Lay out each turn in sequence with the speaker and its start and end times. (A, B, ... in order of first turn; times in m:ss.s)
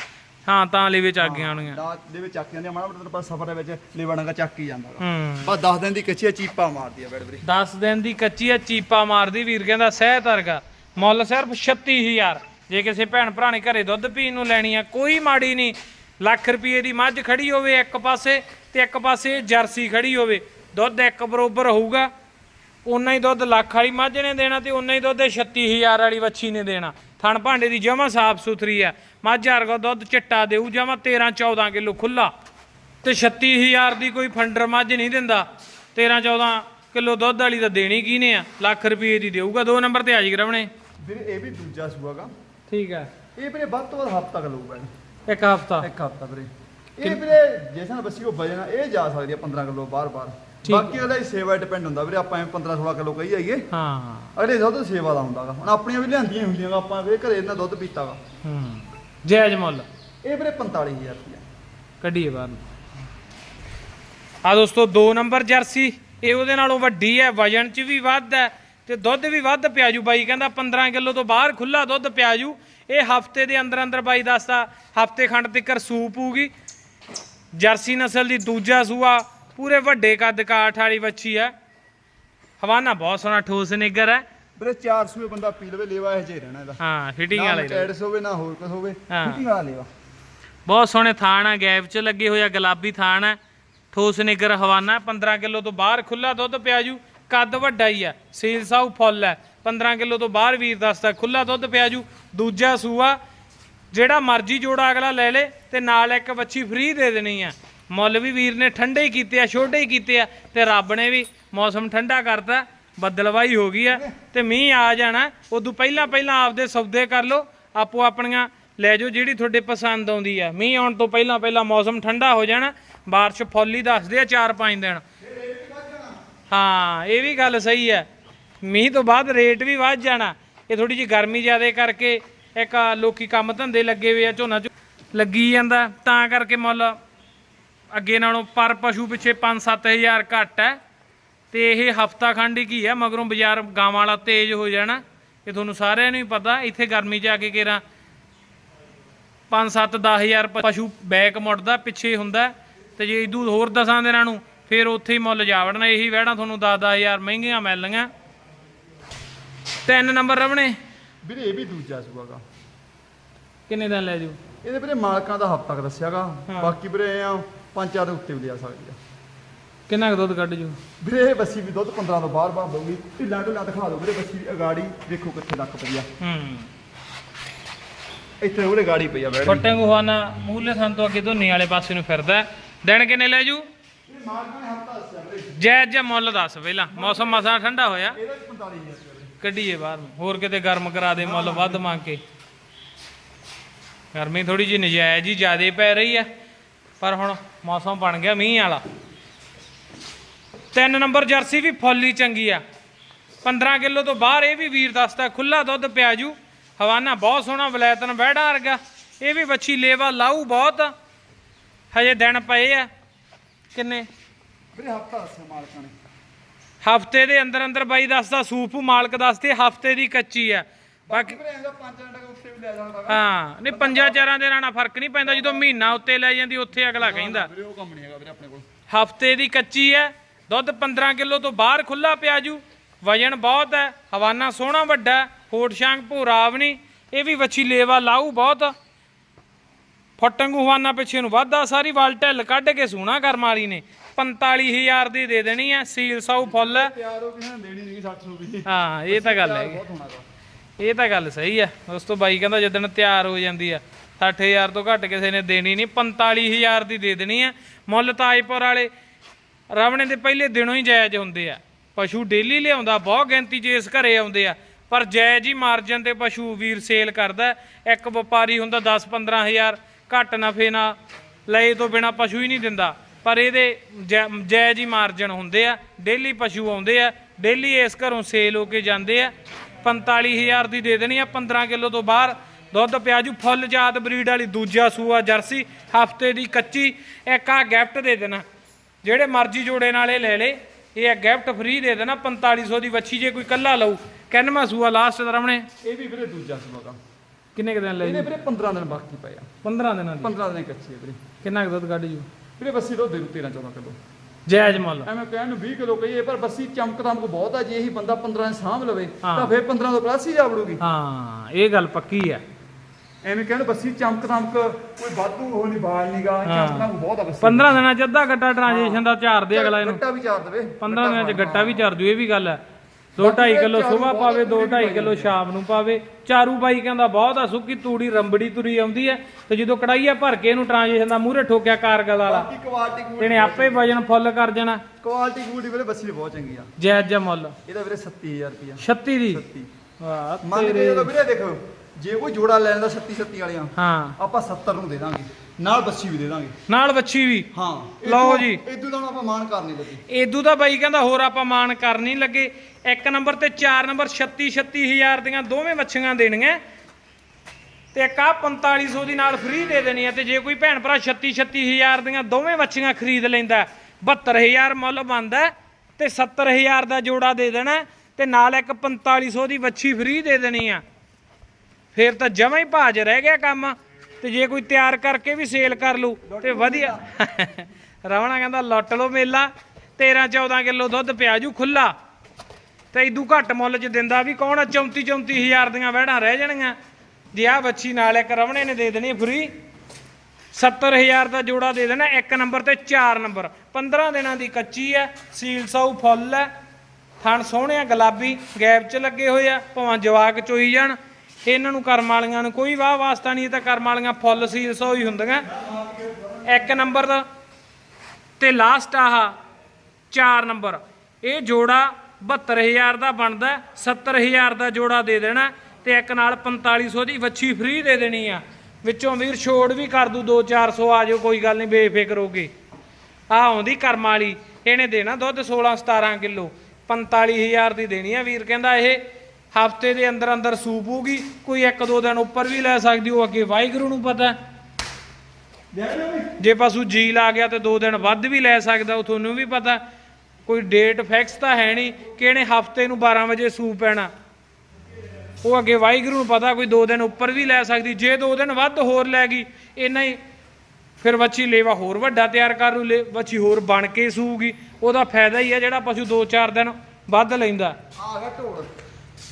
0:00.5-0:01.8 A
0:01.2-0:07.4 B
0:05.0-0:05.5 A
0:07.4-0:22.1 A
0:22.8-0:32.3 A
0:33.0-0:40.7 A
0:41.0-0:42.3 B
0:42.7-0:43.1 A
0:43.4-0:44.9 B
0:45.3-0:45.9 A
0:45.8-0:53.7 B
0:47.0-0:47.3 A
0:50.6-0:51.0 A
0:53.7-0:54.3 A
0:54.4-0:58.2 B
0:58.4-0:59.9 A
1:00.2-1:01.4 B
1:02.0-1:02.6 A
1:04.4-1:16.5 A
1:17.5-1:21.5 A
1:22.6-1:24.2 A
1:24.6-1:26.8 B
1:26.8-1:27.9 A
1:27.3-1:29.9 B
1:29.1-1:29.4 A
1:30.7-1:33.4 A
1:33.9-1:43.2 A
1:43.9-2:05.0 A
2:05.2-2:06.2 B
2:06.5-2:08.1 A
2:08.6-2:17.0 A
2:17.9-2:20.8 A
2:21.5-2:27.8 A
2:29.5-2:38.1 A
2:39.8-2:40.8 A
2:41.2-2:42.4 B
2:43.7-2:44.4 A
2:44.6-2:49.0 B
2:46.5-2:46.8 A
2:49.9-2:50.8 A
2:51.0-2:56.1 B
2:56.2-2:56.7 A
2:58.4-2:59.7 B
2:59.5-3:03.7 A
3:04.1-3:05.6 B
3:05.6-3:08.2 A
3:06.9-3:07.5 B
3:08.1-3:09.3 B
3:09.4-3:12.2 A
3:11.2-3:11.9 B
3:14.1-3:16.3 A
3:17.0-3:18.8 A
3:20.7-3:22.6 A
3:23.4-3:30.9 A
3:31.9-3:32.9 A
3:33.7-3:34.1 A
3:34.7-3:35.9 B
3:36.8-3:41.4 A
3:41.1-3:44.3 B
3:43.1-3:47.5 A
3:45.2-3:45.9 B
3:46.9-3:48.6 B
3:48.9-3:58.7 A
4:00.2-4:06.9 A
4:06.4-4:10.2 B
4:08.7-4:09.8 A
4:10.8-4:18.9 A
4:19.7-4:31.0 A
4:31.5-4:48.4 A
4:49.0-4:55.7 A
4:55.8-4:57.0 B
4:57.6-4:58.3 A
4:58.0-4:59.5 B
4:59.6-5:00.3 A
5:00.2-5:01.2 B
5:01.4-5:02.3 A
5:02.6-5:04.0 B
5:04.5-5:05.1 A
5:04.9-5:10.8 B
5:09.2-5:09.5 A
5:10.8-5:12.4 A
5:13.2-5:17.8 B
5:16.4-5:16.9 A
5:17.4-5:20.0 A
5:18.7-5:21.9 B
5:20.8-5:22.6 A
5:23.2-5:32.5 A
5:23.2-5:25.4 B
5:32.3-5:33.9 B
5:33.2-5:34.8 A
5:35.0-5:36.7 B
5:36.8-5:37.6 A
5:37.7-5:39.7 B
5:38.8-5:39.4 A
5:40.0-5:41.1 A
5:40.4-5:46.5 B
5:43.8-5:44.2 A
5:46.7-5:47.5 A
5:47.5-5:50.0 B
5:48.0-5:48.6 A
5:50.1-5:56.6 A
5:57.9-6:10.8 A
6:11.9-6:21.9 A
6:16.3-6:17.3 B
6:22.9-6:26.8 A
6:27.3-6:29.5 A
6:30.5-6:36.5 A
6:37.2-6:45.5 A
6:45.5-6:46.8 B
6:46.4-6:47.2 A
6:48.4-6:49.3 A
6:50.1-7:02.5 A
7:03.3-7:09.0 A
7:09.5-7:14.4 A
7:15.7-7:16.3 B
7:16.4-7:19.8 A
7:20.5-7:24.1 A
7:25.4-7:30.2 A
7:31.0-7:37.8 A
7:38.0-7:38.7 B